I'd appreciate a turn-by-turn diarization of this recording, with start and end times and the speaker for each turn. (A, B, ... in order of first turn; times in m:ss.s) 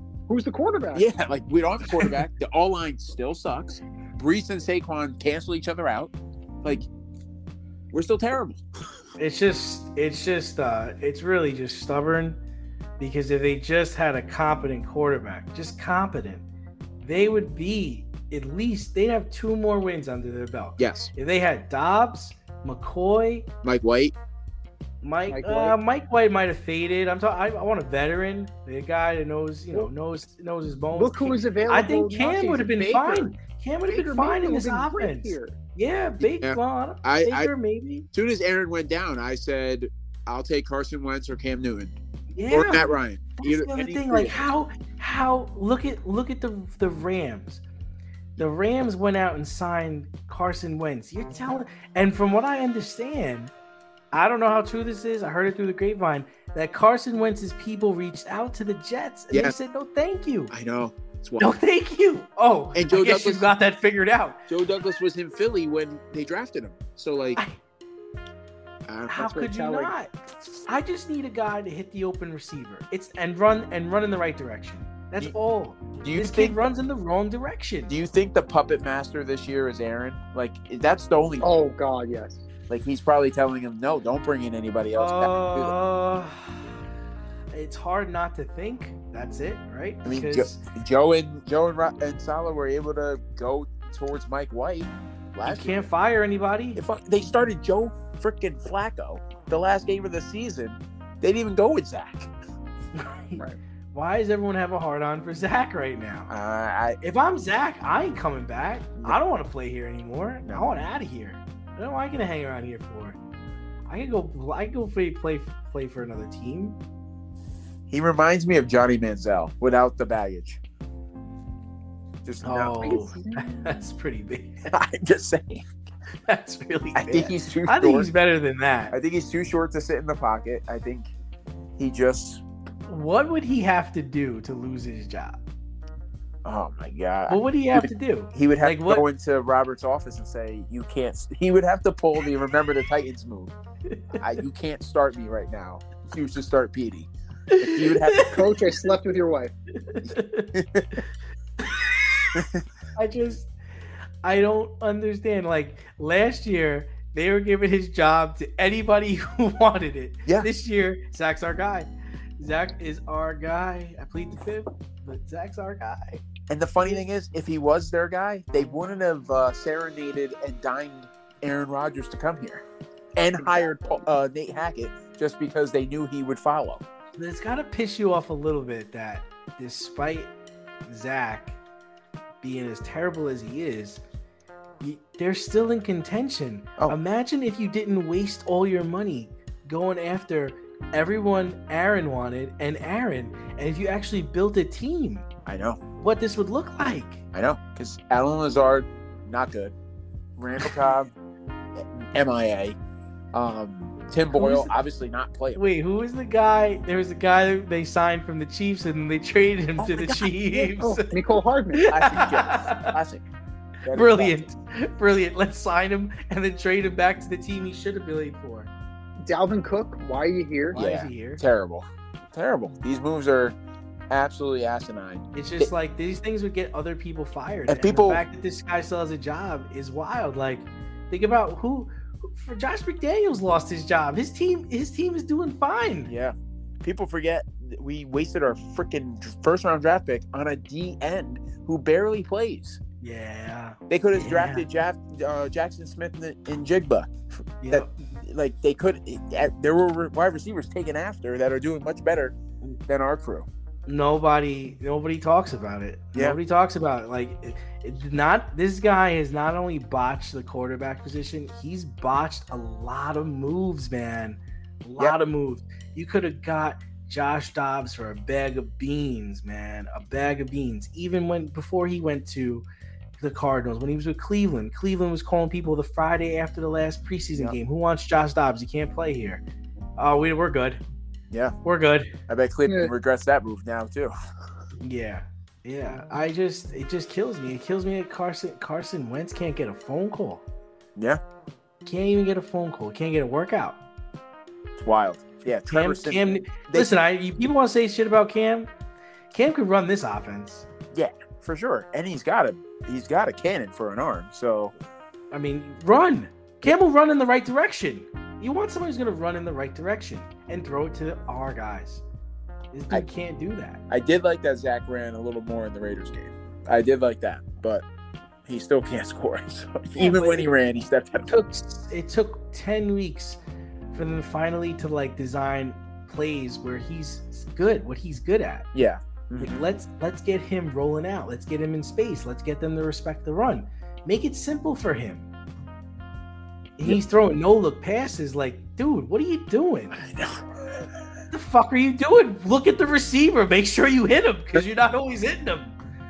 0:00.3-0:01.1 A
0:00.9-0:06.9 B
0:07.9-0:08.6 B
0:09.2-0:12.4 C
0:13.0-0:16.4 C
0:17.0-0:23.5 C
0:20.8-0:21.1 B
0:23.6-0:24.1 B
0:25.0-0:38.0 C
0:25.3-0:25.8 A
0:30.9-0:33.3 A
0:33.9-0:35.6 A
0:36.2-0:37.5 B
0:38.1-0:44.5 B
0:42.3-0:47.6 C
0:48.4-0:53.5 C
0:54.1-1:00.5 C
1:00.5-1:01.5 B
1:01.4-1:04.4 C
1:02.7-1:03.5 B
1:04.5-1:07.4 B
1:08.9-1:09.3 B
1:09.1-1:10.1 C
1:09.2-1:09.9 A
1:10.7-1:17.9 C
1:16.0-1:16.7 B
1:17.9-1:21.5 B
1:21.4-1:22.4 A
1:22.7-1:25.7 B
1:24.9-1:26.8 C
1:27.5-1:30.6 C
1:30.0-1:35.9 B
1:35.4-1:36.8 C
1:36.8-1:42.3 B
1:43.0-1:46.3 C
1:46.3-1:47.0 B
1:47.0-1:53.2 C
1:50.4-1:50.8 B
1:53.9-1:56.8 C
1:57.9-2:00.6 B
2:02.2-2:02.8 B
2:02.4-2:04.6 C
2:02.8-2:03.7 A
2:04.7-2:05.7 B
2:06.3-2:08.9 C
2:06.9-2:08.1 B
2:08.9-2:11.1 B
2:11.8-2:12.4 B
2:12.8-2:15.4 C
2:16.4-2:23.5 B
2:17.3-2:19.0 C
2:23.9-2:24.2 C
2:24.1-2:28.5 B
2:27.6-2:28.5 C
2:28.3-2:29.5 A
2:29.8-2:31.0 C
2:30.6-2:30.9 B
2:31.6-2:32.3 C
2:32.3-2:32.6 B
2:33.0-2:33.5 C
2:34.2-2:46.2 C
2:46.5-2:52.6 B
2:53.2-2:56.8 B
2:53.4-2:54.0 A
2:57.2-3:00.3 C
3:00.8-3:01.6 C
3:02.4-3:04.0 C
3:04.8-3:15.3 C
3:15.4-3:15.8 B
3:16.0-3:17.2 C
3:17.3-3:19.7 B
3:20.4-3:21.1 B
3:21.8-3:22.8 B
3:23.3-3:25.6 B
3:24.3-3:24.7 C
3:25.5-3:31.2 C
3:29.8-3:30.3 B
3:30.5-3:32.1 A
3:31.7-3:32.9 C
3:31.9-3:33.3 B
3:33.8-3:34.5 B
3:33.9-3:38.7 C
3:39.2-3:40.8 A
3:40.7-3:41.4 C
3:40.7-3:43.6 B
3:44.1-3:45.7 B
3:45.3-3:56.1 C
3:47.7-3:48.2 B
3:56.0-4:02.8 B
4:03.0-4:04.6 C
4:03.9-4:07.1 B
4:07.6-4:07.9 C
4:07.7-4:12.3 B
4:12.9-4:13.5 B
4:13.9-4:32.6 C
4:33.2-4:39.4 C
4:40.0-4:40.8 C
4:41.6-4:42.1 C
4:42.3-4:44.2 B
4:42.6-4:42.9 A
4:44.8-4:50.4 C
4:51.8-4:53.8 C
4:54.8-4:56.9 B
4:55.7-4:58.7 C
4:59.3-5:00.6 C
5:00.9-5:04.7 B
5:05.3-5:12.0 C
5:12.7-5:13.8 C
5:13.9-5:17.8 B
5:18.4-5:21.4 B
5:19.9-5:20.5 C
5:21.3-5:23.4 C
5:23.9-5:28.7 C
5:28.7-5:29.6 B
5:29.4-5:35.3 C
5:36.8-5:40.0 C
5:39.9-5:40.5 B
5:41.3-5:45.8 C